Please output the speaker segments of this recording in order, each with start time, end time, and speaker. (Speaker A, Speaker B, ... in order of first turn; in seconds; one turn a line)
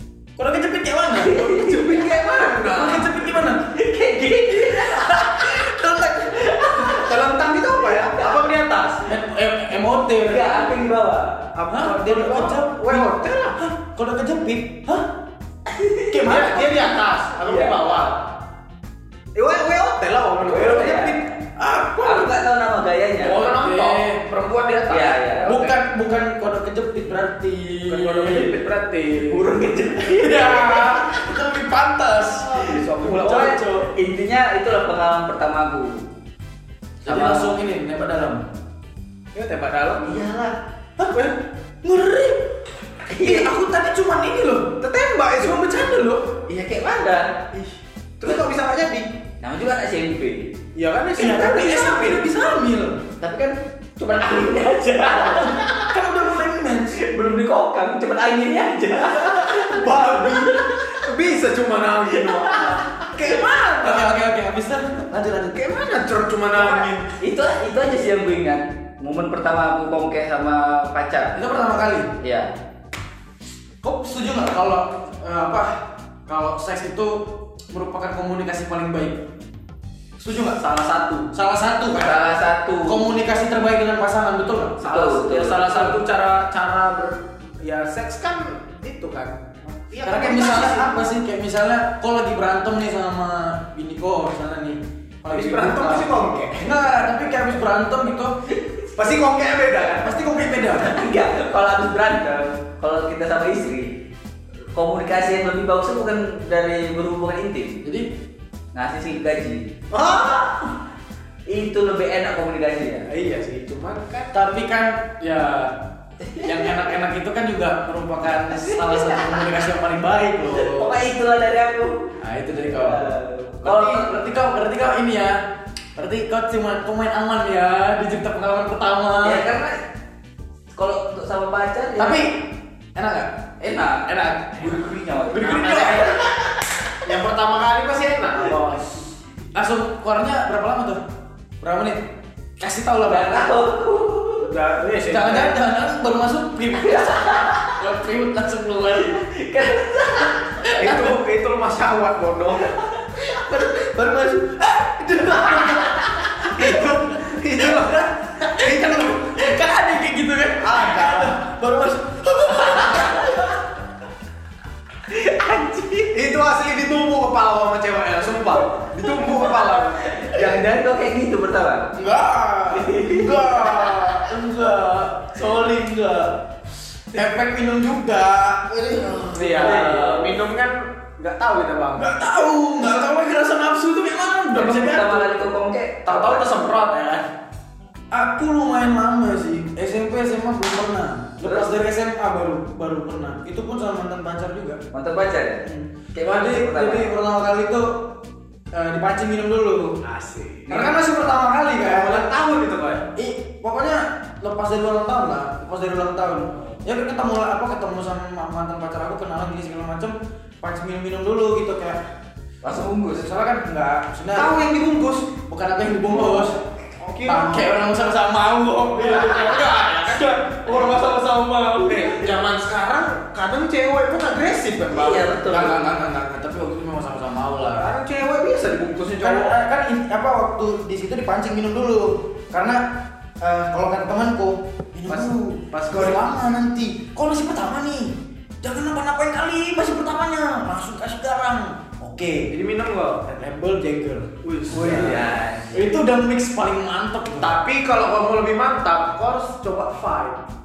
Speaker A: 0.4-1.6
Speaker B: 1.1-2.7
Speaker C: 1.4-3.2
Speaker A: 2.7-3.7
Speaker B: 3.6-7.2
Speaker A: 4.5-6.5
Speaker C: 6.8-9.1
Speaker B: 8.1-8.4
Speaker A: 9.1-10.8
Speaker B: 10.2-11.5
Speaker C: 11.5-13.6
Speaker A: 11.7-15.1
Speaker B: 15.7-16.2
Speaker A: 16.1-17.0
Speaker C: 16.2-18.2
Speaker B: 17.4-18.1
Speaker C: 19.3-21.3
Speaker B: 20.4-21.2
Speaker A: 21.6-22.3
Speaker B: 22.0-23.4
Speaker A: 23.2-24.2
Speaker C: 23.2-25.8
Speaker B: 24.9-25.5
Speaker A: 25.4-28.6
Speaker C: 27.9-29.5
Speaker B: 29.2-31.2
Speaker A: 30.1-33.9
Speaker B: 32.6-36.1
Speaker C: 32.6-33.6
Speaker A: 37.0-38.4
Speaker B: 37.0-37.5
Speaker C: 39.3-40.2
Speaker B: 40.0-40.5
Speaker A: 41.0-41.3
Speaker A: 41.8-42.5
Speaker B: 43.1-43.5
Speaker A: 43.1-44.8
Speaker C: 44.8-45.6
Speaker A: 45.4-46.3
Speaker B: 46.5-47.4
Speaker C: 47.5-49.1
Speaker B: 49.4-50.5
Speaker C: 50.7-52.3
Speaker A: 51.1-53.0
Speaker B: 53.2-55.9
Speaker A: 55.2-57.0
Speaker B: 56.9-61.0
Speaker C: 59.4-64.1
Speaker B: 62.1-63.2
Speaker A: 63.8-65.6
Speaker C: 65.5-67.0
Speaker A: 66.5-67.0
Speaker B: 67.2-71.4
Speaker A: 71.3-72.1
Speaker B: 72.2-72.5
Speaker A: 73.8-79.2
Speaker A: 80.2-80.6
Speaker B: 80.6-81.2
Speaker A: 81.3-84.8
Speaker B: 81.9-83.0
Speaker C: 84.8-91.0
Speaker B: 84.8-85.9
Speaker A: 85.6-85.9
Speaker A: 90.0-98.3
Speaker C: 95.3-96.8
Speaker B: 98.5-98.8
Speaker C: 98.9-100.2
Speaker A: 100.0-101.0
Speaker B: 100.7-104.0
Speaker B: 104.7-107.8
Speaker A: 107.8-108.1
Speaker B: 108.7-109.7
Speaker C: 109.9-110.7
Speaker B: 111.5-113.1
Speaker C: 113.1-114.3
Speaker A: 114.3-115.7
Speaker B: 116.2-116.8
Speaker A: 116.4-121.0
Speaker B: 118.5-119.4
Speaker B: 120.5-124.2
Speaker A: 122.2-123.0
Speaker A: 123.6-125.4
Speaker A: 126.0-129.5
Speaker B: 129.2-129.8
Speaker B: 130.7-132.3
Speaker A: 132.0-133.3
Speaker B: 133.6-136.2
Speaker A: 134.1-136.9
Speaker C: 135.5-136.1
Speaker C: 137.0-139.0
Speaker A: 139.5-141.0
Speaker A: 141.6-142.1
Speaker A: 142.6-143.6
Speaker B: 143.1-144.5
Speaker C: 144.4-145.6
Speaker A: 145.0-149.2
Speaker B: 146.8-147.8
Speaker B: 149.0-150.7
Speaker A: 150.6-151.1
Speaker C: 150.7-152.7
Speaker B: 152.8-153.0
Speaker A: 153.2-163.5
Speaker C: 156.5-159.3
Speaker C: 160.6-161.4
Speaker B: 165.1-166.1
Speaker C: 166.1-170.6
Speaker B: 168.8-171.9
Speaker A: 171.9-176.4
Speaker B: 172.7-174.1
Speaker A: 177.1-180.0
Speaker C: 179.3-182.1
Speaker B: 179.4-180.4
Speaker A: 181.9-185.3
Speaker B: 184.5-187.0
Speaker C: 186.1-186.8
Speaker A: 188.1-194.8
Speaker B: 191.4-191.7
Speaker B: 194.9-197.1
Speaker A: 195.6-198.1
Speaker A: 198.7-200.0
Speaker C: 200.0-201.0
Speaker A: 200.7-202.3
Speaker C: 201.8-203.1
Speaker A: 203.1-212.0
Speaker B: 212.6-213.2
Speaker A: 213.1-214.6
Speaker C: 214.3-215.3
Speaker A: 215.5-216.6
Speaker C: 216.1-217.8
Speaker A: 217.2-222.3
Speaker C: 219.0-220.8
Speaker C: 221.8-225.3
Speaker B: 224.9-225.8
Speaker A: 225.5-227.9
Speaker C: 227.7-229.6
Speaker A: 229.2-232.8
Speaker A: 233.4-242.5
Speaker C: 235.1-236.2
Speaker C: 242.5-243.2
Speaker A: 243.2-247.5
Speaker C: 244.4-245.3
Speaker B: 244.7-245.8
Speaker C: 247.4-250.4